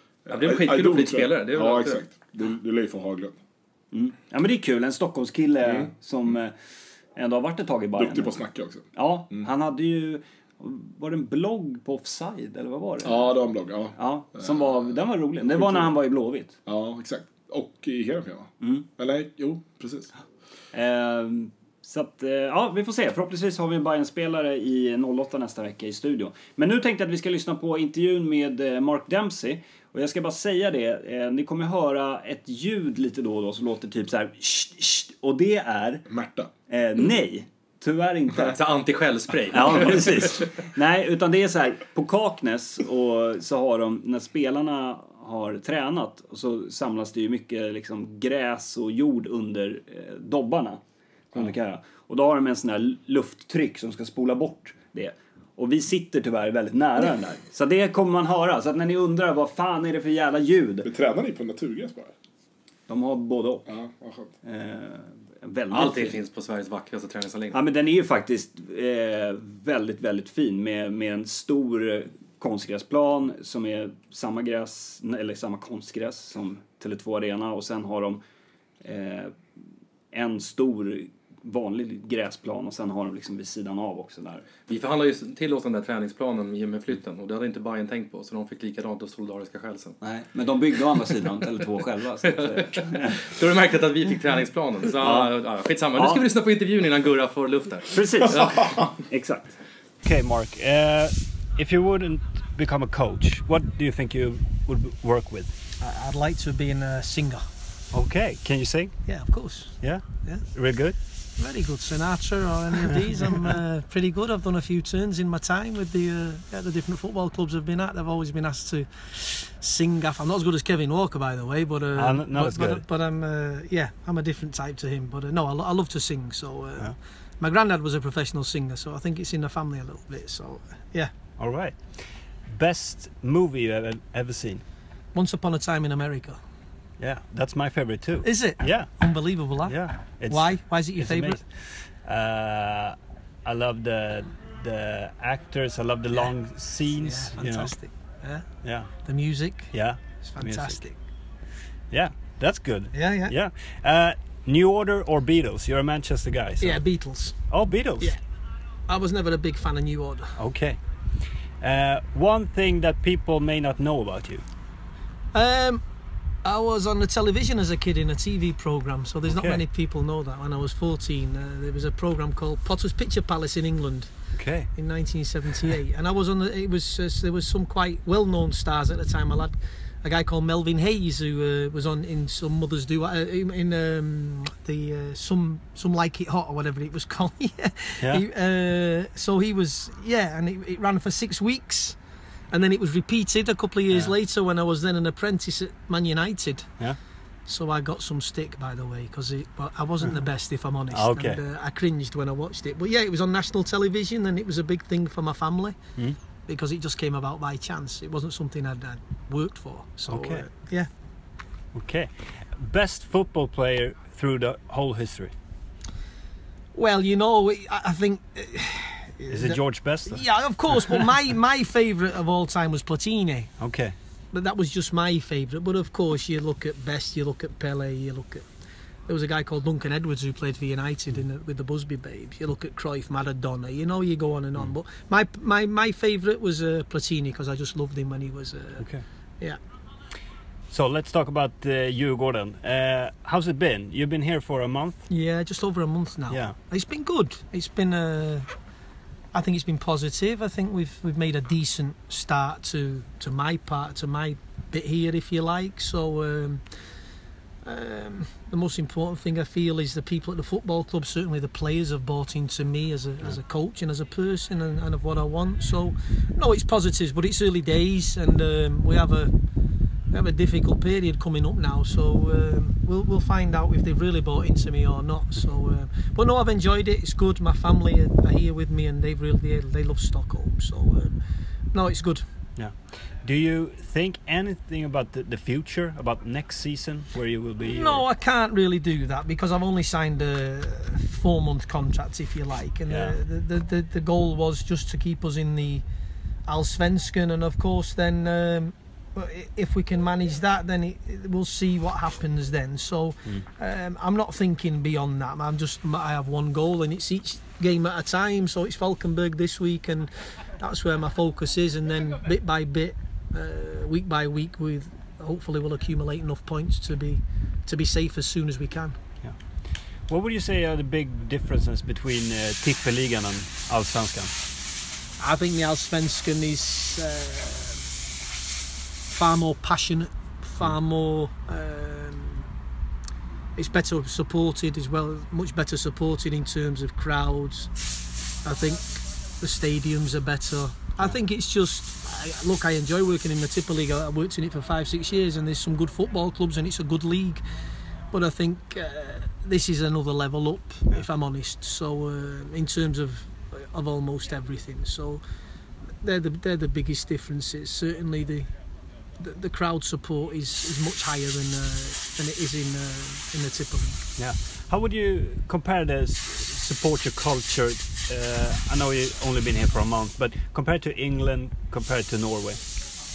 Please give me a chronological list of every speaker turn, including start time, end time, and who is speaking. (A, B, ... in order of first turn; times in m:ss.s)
0:00.2-0:03.4 A
0:00.3-0:02.0 B
0:03.9-0:06.5 C
0:07.2-0:08.4 C
0:08.0-0:09.4 A
0:08.9-0:13.3 C
0:13.0-0:14.8 A
0:14.0-0:16.6 C
0:15.5-0:15.9 A
0:16.6-0:20.1 A
0:18.6-0:18.8 C
0:20.7-0:36.1 C
0:36.1-0:36.5 A
0:36.7-0:38.6 C
0:38.4-0:40.3 B
0:39.5-0:50.8 C
0:51.3-1:00.9 C
1:00.8-1:02.1 A
1:02.9-1:03.7 C
1:03.7-1:04.3 A
1:04.4-1:06.2 C
1:05.7-1:07.6 B
1:07.5-1:18.2 C
1:18.8-1:19.4 C
1:20.1-1:24.5 C
1:24.7-1:30.0 B
1:30.0-1:33.2 C
1:32.3-1:38.8 B
1:35.0-1:35.3 C
1:35.9-1:36.2 C
1:37.9-1:39.6 C
1:40.0-1:45.5 D
1:45.8-1:47.4 E
1:47.9-1:48.9 D
1:49.0-1:50.4 E
1:49.8-1:51.0 D
1:51.4-2:11.1 E
2:01.9-2:02.8 D
2:11.4-2:11.8 D
2:12.5-2:14.6 D
2:15.1-2:16.4 E
2:17.0-2:19.0 D
2:18.2-2:21.4 E
2:19.6-2:21.4 D
2:22.0-2:27.7 D
2:27.0-2:31.0 E
2:28.6-2:28.9 D
2:29.7-2:30.8 D
2:31.9-2:36.8 D
2:32.9-2:33.3 E
2:36.6-2:37.4 E
2:37.5-2:38.1 D
2:38.9-2:40.3 E
2:40.4-2:40.8 D
2:41.6-2:44.4 D
2:45.3-2:45.8 E
2:46.4-2:54.1 E
2:49.2-2:49.6 D
2:54.3-2:54.7 D
2:54.7-3:12.0 E
3:12.5-3:16.7 E
3:17.5-3:25.8 E
3:20.9-3:21.4 D
3:26.5-3:30.9 E
3:30.1-3:30.4 D
3:31.7-3:35.3 D
3:36.7-3:43.5 E
3:39.3-3:41.0 D
3:43.6-3:43.9 D
3:44.3-3:48.4 E
3:49.1-3:58.8 E
4:00.7-4:05.1 D
4:05.1-4:08.5 E
4:06.3-4:06.6 D
4:09.3-4:16.6 E
4:17.6-4:29.3 E
4:30.1-4:41.2 E
4:41.7-4:42.2 E
4:42.6-4:48.0 D
4:47.6-4:55.8 E
4:52.9-4:53.2 D
4:56.4-5:19.0 E
5:20.1-5:24.3 D
5:25.2-5:27.8 E
5:29.1-5:32.5 E
5:33.6-5:37.7 E
5:38.4-5:47.4 E
5:48.1-5:55.2 E
5:56.0-5:58.5 E
5:59.2-6:04.0 E
6:04.2-6:12.6 D